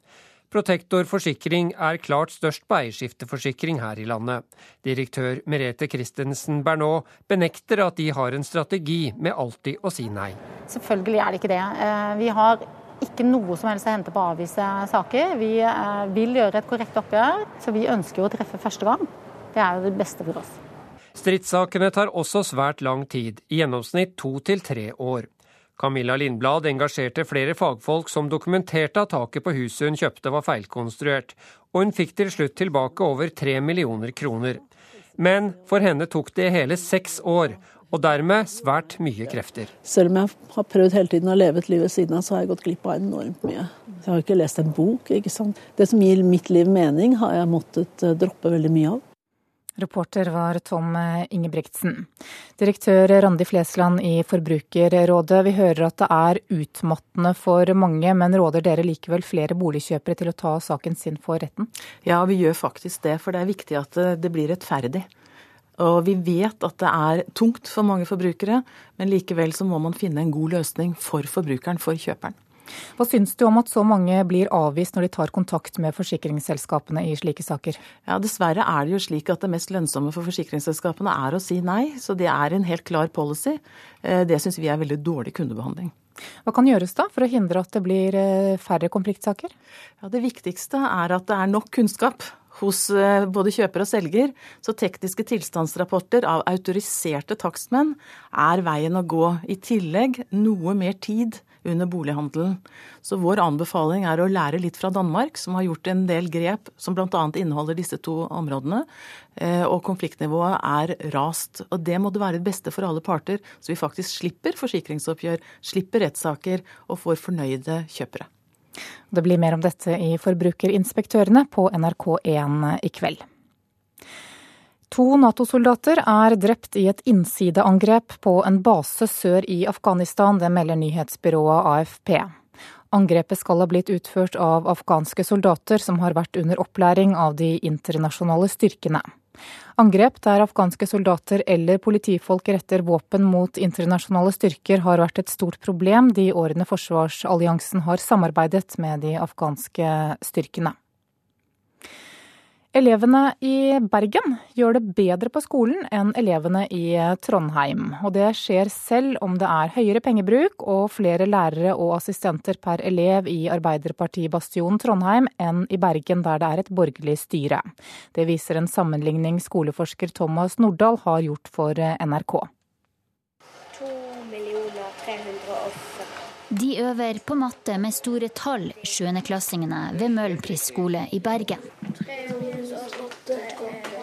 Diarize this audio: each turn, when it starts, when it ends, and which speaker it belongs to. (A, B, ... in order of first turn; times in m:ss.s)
0:00.5-0:10.4 A
0:10.7-0:20.6 B
0:21.2-0:34.6 A
0:35.2-0:39.7 A
0:39.9-0:49.0 C
0:49.8-1:01.7 D
1:02.0-1:05.1 E
1:05.8-1:12.3 E
1:13.0-1:17.8 D
1:18.0-1:25.9 E
1:26.5-1:29.5 D
1:30.0-1:58.3 E
1:59.1-2:03.2 D
2:04.9-2:12.3 D
2:12.9-2:19.1 D
2:19.8-2:30.8 D
2:32.7-2:52.5 D
2:56.5-3:01.6 F